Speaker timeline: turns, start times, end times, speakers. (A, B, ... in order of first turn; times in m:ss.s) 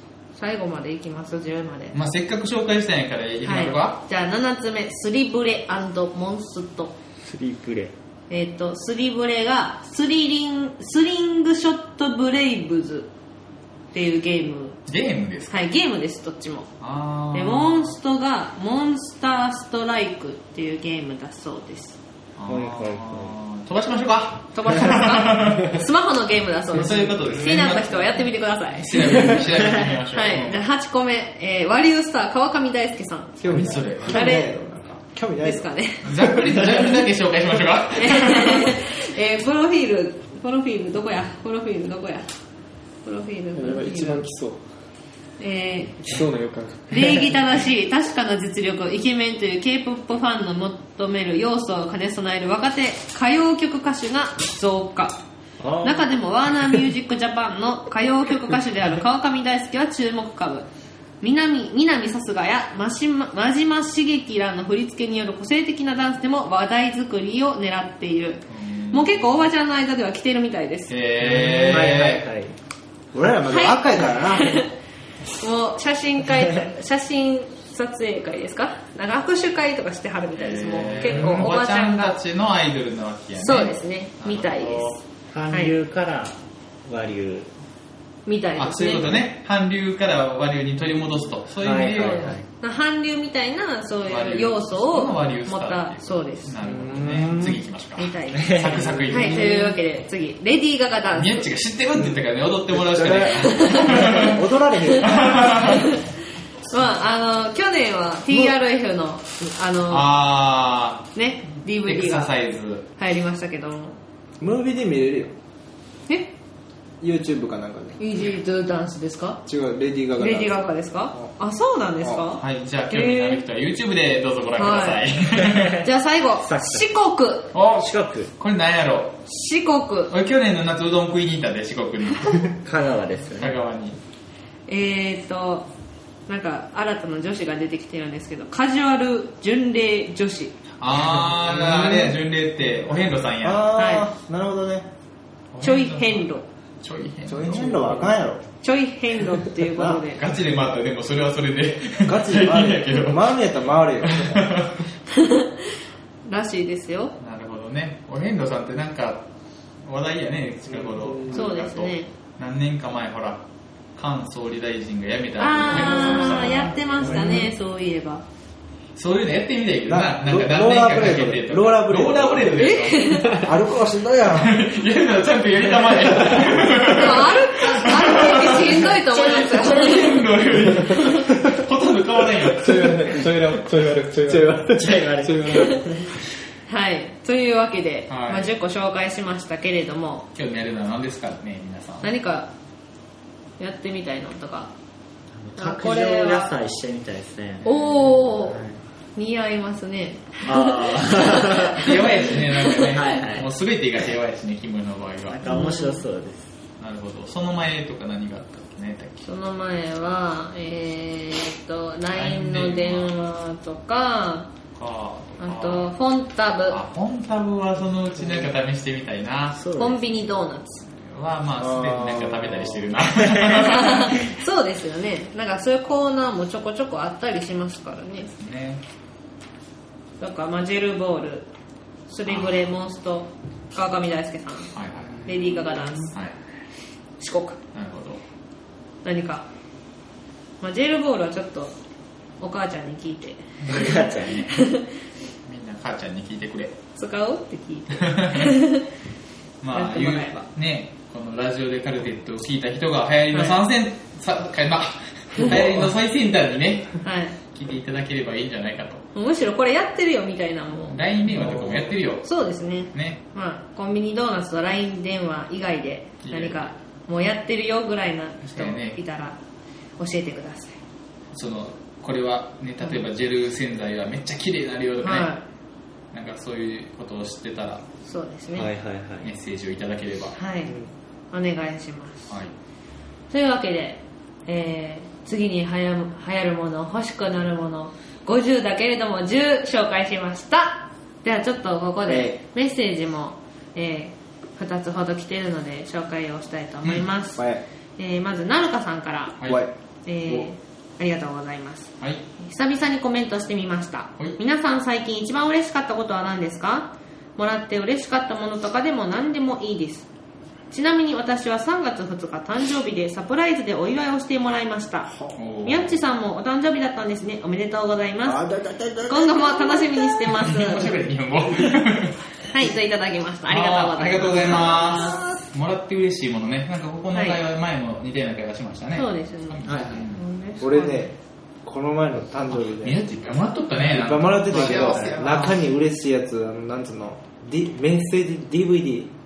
0:00.4-0:02.0 A
0:01.9-0:04.0 B
0:03.4-0:06.9 A
0:07.2-0:07.9 C
0:08.3-0:13.1 A
0:13.9-0:14.8 A
0:14.9-0:15.5 B
0:15.5-0:16.7 A
0:16.8-0:17.9 B
0:17.3-0:22.0 A
0:22.4-0:25.8 B
0:22.5-0:23.3 C
0:24.5-0:33.4 A
0:26.7-0:30.6 B
0:33.4-0:35.7 D
0:33.5-0:34.3 B
0:34.1-0:34.5 A
0:35.4-0:36.3 A
0:36.0-0:38.8 B
0:36.2-0:36.5 D
0:37.9-0:42.3 A
0:43.0-0:44.2 A
0:43.5-0:44.6 E
0:45.4-0:46.1 A
0:46.0-0:47.3 E
0:46.9-0:55.2 A
0:55.6-0:56.1 C
0:55.8-1:00.7 A
1:01.2-1:10.9 A
1:08.5-1:09.3 B
1:10.9-1:12.2 B
1:11.4-1:12.5 C
1:13.1-1:14.6 D
1:13.5-1:14.7 A
1:15.4-1:22.1 A
1:20.3-1:25.0 B
1:21.1-1:21.5 D
1:23.4-1:25.7 A
1:25.3-1:27.5 C
1:28.2-1:29.2 A
1:28.6-1:32.4 B
1:31.6-1:32.4 C
1:32.6-1:36.5 A
1:34.1-1:39.6 B
1:36.6-1:37.6 D
1:38.0-1:41.5 A
1:38.4-1:39.1 C
1:41.1-1:44.4 B
1:42.7-1:45.7 D
1:43.4-1:44.3 A
1:45.0-1:45.8 B
1:45.6-1:46.0 A
1:46.7-1:50.1 A
1:49.9-1:51.1 B
1:51.1-1:52.3 A
1:51.8-1:52.8 B
1:53.0-1:54.0 A
1:54.4-1:55.3 D
1:57.0-1:58.0 D
1:58.0-1:59.4 A
1:59.4-2:00.6 D
2:00.2-2:03.4 A
2:02.4-2:05.8 B
2:04.6-2:05.1 A
2:05.4-2:05.7 C
2:05.8-2:07.5 A
2:06.4-2:06.8 C
2:07.5-2:09.2 B
2:07.6-2:08.3 C
2:09.3-2:10.1 A
2:10.1-2:12.6 B
2:12.6-2:13.6 C
2:13.4-2:14.0 B
2:14.7-2:15.7 A
2:16.3-2:20.5 A
2:20.8-2:23.7 B
2:21.5-2:22.2 D
2:23.4-2:24.9 D
2:23.7-2:24.1 A
2:25.5-2:28.1 B
2:25.6-2:26.4 A
2:27.3-2:28.4 D
2:28.6-2:30.2 A
2:29.7-2:30.0 D
2:30.1-2:33.4 B
2:32.0-2:34.5 D
2:34.0-2:34.8 B
2:35.1-2:35.6 A
2:36.2-2:37.2 A
2:37.2-2:39.3 B
2:39.8-2:43.4 B
2:41.3-2:42.1 A
2:43.9-2:46.7 B
2:45.4-2:48.2 A
2:49.0-2:53.3 B
2:49.9-2:52.6 D
2:52.6-2:53.4 A
2:53.3-2:54.6 D
2:54.3-3:03.1 B
2:56.8-3:00.2 A
3:01.0-3:01.2 A
3:02.6-3:05.9 E
3:04.2-3:05.0 D
3:04.7-3:06.1 C
3:06.7-3:10.3 A
3:08.1-3:08.5 B
3:10.3-3:12.1 B
3:12.0-3:12.5 A
3:13.6-3:14.7 A
3:15.4-3:18.8 C
3:15.6-3:16.5 A
3:17.6-3:18.6 A
3:19.2-3:22.9 A
3:20.4-3:22.0 C
3:21.7-3:25.4 B
3:22.8-3:23.5 C
3:25.3-3:26.5 C
3:25.4-3:26.0 A
3:26.8-3:29.3 B
3:29.2-3:34.5 A
3:32.1-3:33.1 B
3:34.8-3:35.9 B
3:35.4-3:36.8 A
3:36.7-3:39.7 B
3:39.5-3:40.0 C
3:39.7-3:40.8 A
3:40.9-3:44.3 B
3:41.8-3:42.2 D
3:43.6-3:48.3 A
3:48.2-3:48.8 B
3:50.2-3:51.5 A
3:52.1-3:54.7 A
3:52.3-3:52.7 B
3:54.7-3:55.4 B
3:55.2-3:56.2 A
3:57.2-3:57.6 A
3:57.7-3:58.2 B
3:59.0-3:59.5 A
4:00.6-4:01.7 A
4:02.4-4:04.9 A
4:03.6-4:04.5 B
4:03.7-4:04.5 C
4:05.4-4:06.8 B
4:07.0-4:08.9 A
4:08.0-4:08.5 B
4:09.6-4:19.0 B
4:09.7-4:10.4 A
4:13.3-4:13.6 A
4:17.0-4:17.3 A
4:19.1-4:21.0 A
4:20.9-4:22.3 B
4:22.2-4:29.4 A
4:22.9-4:23.2 B
4:26.2-4:26.7 B
4:28.4-4:29.0 B
4:30.0-4:30.8 A
4:31.3-4:35.3 B
4:35.0-4:35.4 A
4:36.1-4:37.8 B
4:38.0-4:38.7 A
4:38.5-4:39.3 C
4:39.2-4:40.3 B
4:40.3-4:40.7 A
4:41.3-4:42.3 A
4:43.3-4:57.4 A
4:52.1-4:52.3 D
4:57.4-4:57.6 D
4:58.0-4:59.4 A
4:59.4-4:59.7 D
5:00.0-5:10.1 A
5:10.7-5:15.1 A
5:15.4-5:15.9 B
5:15.6-5:18.4 A
5:18.2-5:19.8 D
5:19.1-5:20.9 A
5:20.4-5:22.2 B
5:22.5-5:24.8 A
5:23.5-5:30.2 B
5:24.6-5:25.2 C
5:27.1-5:27.4 A
5:28.9-5:31.1 A
5:29.6-5:30.1 C
5:30.6-5:33.0 D
5:32.6-5:35.6 B
5:33.8-5:39.1 D
5:34.5-5:35.4 C